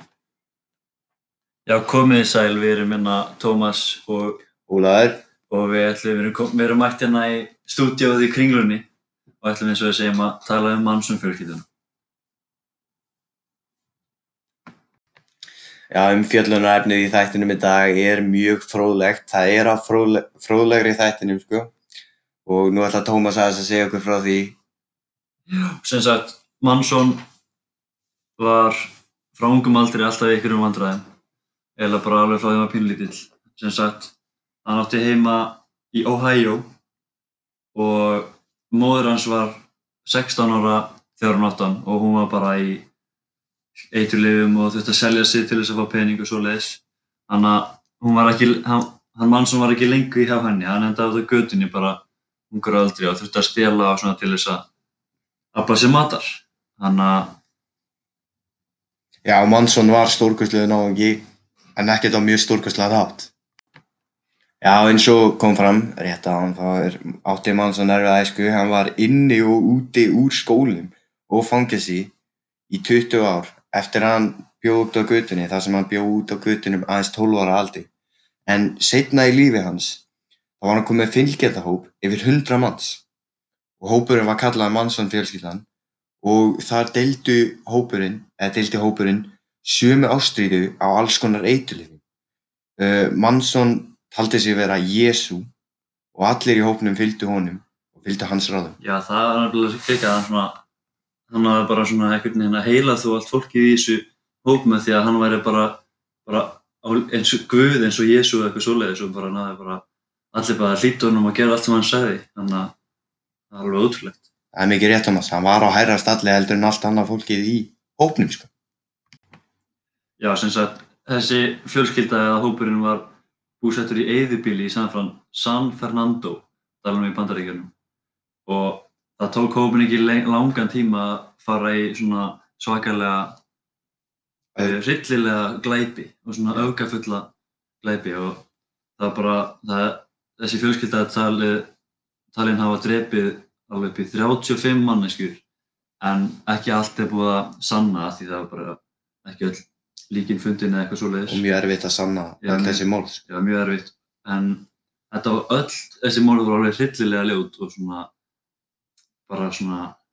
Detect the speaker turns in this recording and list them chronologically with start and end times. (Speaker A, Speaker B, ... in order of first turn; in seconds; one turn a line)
Speaker A: 1.6-4.4
Speaker B: 4.7-5.2
Speaker A: 5.5-8.9
Speaker A: 9.4-11.6
Speaker B: 15.9-21.7
Speaker B: 22.4-24.6
Speaker A: 25.5-27.2
Speaker A: 28.4-31.0
Speaker A: 31.8-34.1
Speaker A: 34.6-36.7
Speaker A: 37.7-42.9
Speaker A: 43.9-52.0
Speaker A: 52.5-54.6
Speaker A: 55.5-57.4
Speaker B: 59.2-61.2
Speaker B: 61.8-63.3
Speaker B: 64.6-72.1
Speaker B: 72.7-77.9
Speaker B: 78.5-80.0
Speaker B: 80.6-83.0
Speaker B: 83.8-85.7
Speaker B: 86.2-92.0
Speaker B: 92.8-95.5
Speaker B: 96.1-98.8
Speaker A: 98.8-100.6
Speaker A: 101.3-112.7
Speaker A: 113.5-114.2
Speaker B: 114.5-118.5
Speaker A: 120.2-127.7
Speaker A: 128.4-133.4
Speaker A: 134.6-137.3
Speaker A: 137.8-138.4
Speaker A: 139.0-141.7
Speaker A: 142.3-145.4
Speaker A: 146.0-151.4
Speaker B: 151.3-153.2
Speaker A: 152.4-158.1
Speaker A: 159.3-159.9